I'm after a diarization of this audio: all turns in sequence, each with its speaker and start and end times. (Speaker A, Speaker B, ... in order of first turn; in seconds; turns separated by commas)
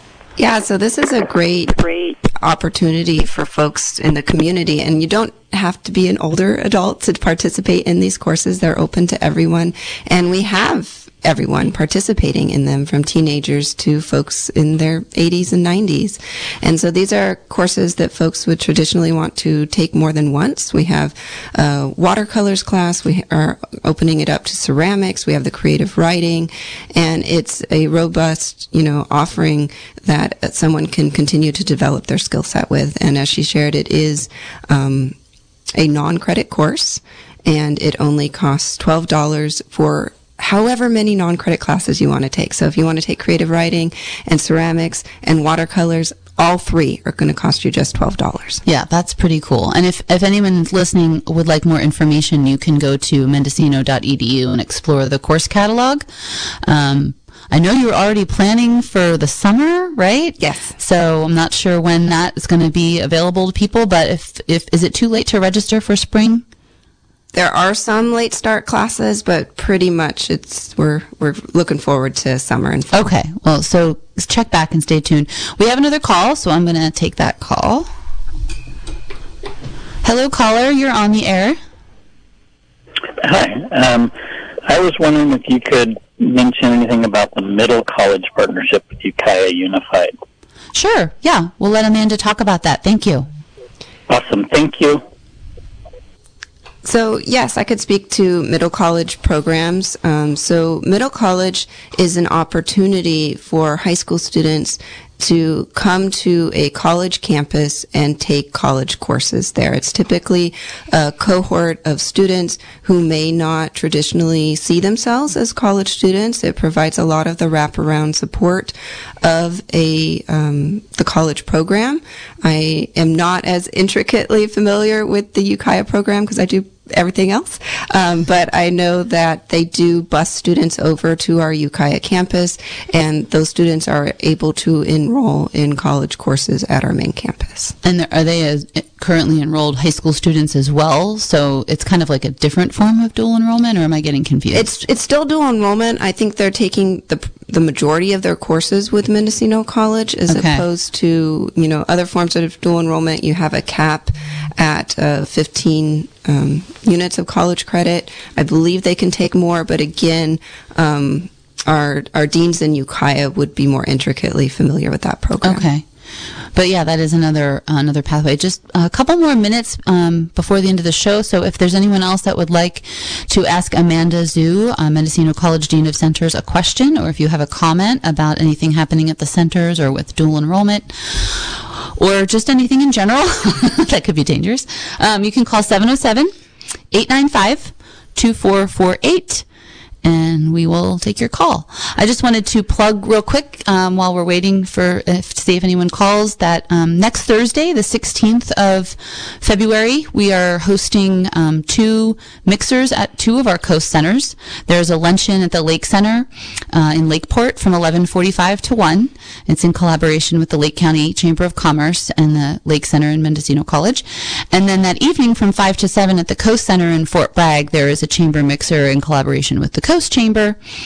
Speaker A: 0.4-35.2, Speaker A: 35.7-48.6, Speaker B: 48.6-56.0, Speaker B: 56.6-66.4, Speaker A: 60.4-60.7, Speaker A: 67.3-73.0, Speaker B: 72.9-77.9, Speaker B: 80.0-81.6, Speaker C: 83.2-84.1, Speaker C: 84.7-90.1, Speaker B: 90.7-93.3, Speaker C: 94.1-95.0, Speaker A: 96.8-137.7, Speaker B: 137.8-144.8, Speaker A: 144.5-165.6, Speaker B: 150.3-150.6, Speaker B: 165.4-165.8, Speaker B: 166.5-186.3, Speaker B: 186.9-189.4, Speaker B: 190.0-220.6